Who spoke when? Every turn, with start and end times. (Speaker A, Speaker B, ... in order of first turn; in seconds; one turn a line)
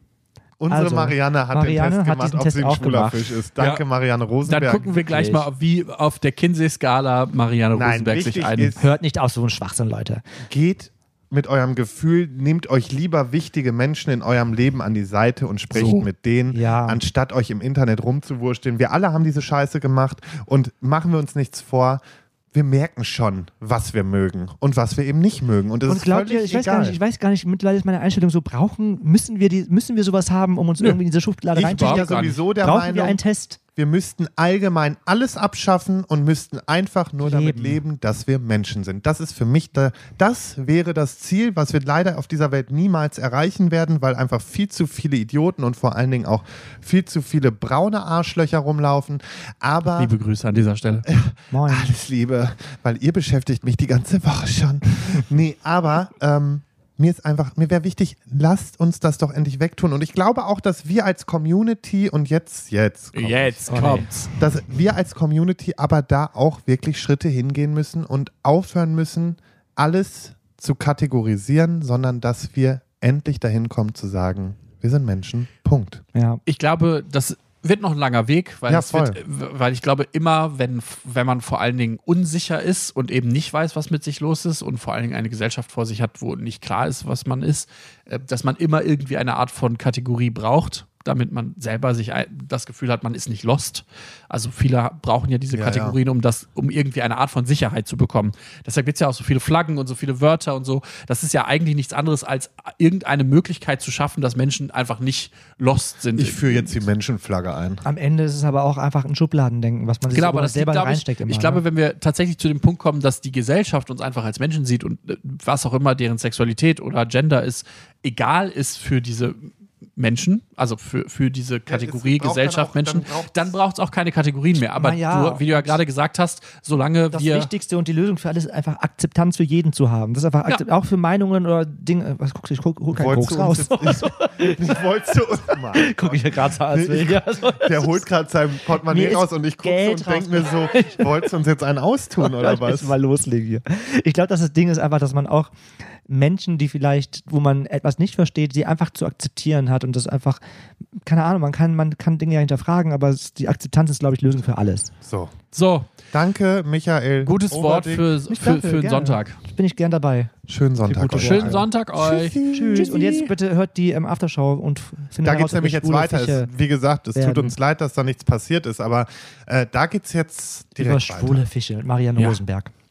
Speaker A: 0.6-5.0
Speaker B: 0.7-3.2
Speaker C: 4.5-8.7
Speaker B: 5.0-5.5
Speaker A: 7.7-8.9
Speaker B: 8.8-10.2
Speaker A: 10.4-22.0
Speaker C: 15.7-16.1
Speaker B: 16.5-17.0
Speaker A: 22.5-27.0
Speaker B: 25.9-33.6
Speaker A: 31.5-33.2
Speaker C: 31.6-32.4
Speaker A: 33.8-50.1
Speaker B: 37.2-37.8
Speaker C: 50.0-51.1
Speaker A: 51.0-63.7
Speaker B: 51.5-52.0
Speaker C: 63.1-64.3
Speaker B: 63.7-64.1
Speaker A: 64.3-76.0
Speaker B: 76.1-76.4
Speaker C: 76.5-106.8
Speaker A: 78.7-79.2
Speaker A: 95.5-96.0
Speaker A: 106.2-107.8
Speaker B: 107.8-111.6
Speaker C: 110.1-127.5
Speaker A: 121.7-123.5
Speaker B: 124.6-125.8
Speaker B: 127.1-134.6
Speaker A: 132.9-142.9
Speaker B: 135.7-138.0
Speaker B: 138.8-141.1
Speaker B: 142.2-145.5
Speaker B: 146.1-150.4
Speaker B: 151.0-154.9
Speaker A: 155.0-155.3
Speaker C: 155.5-155.9
Speaker A: 156.1-158.1
Speaker C: 157.2-159.4
Speaker B: 158.3-160.3
Speaker A: 160.5-163.2
Speaker C: 160.9-163.3
Speaker B: 161.1-161.7
Speaker B: 162.5-166.5
Speaker A: 165.2-171.4
Speaker B: 167.1-167.5
Speaker B: 170.8-172.7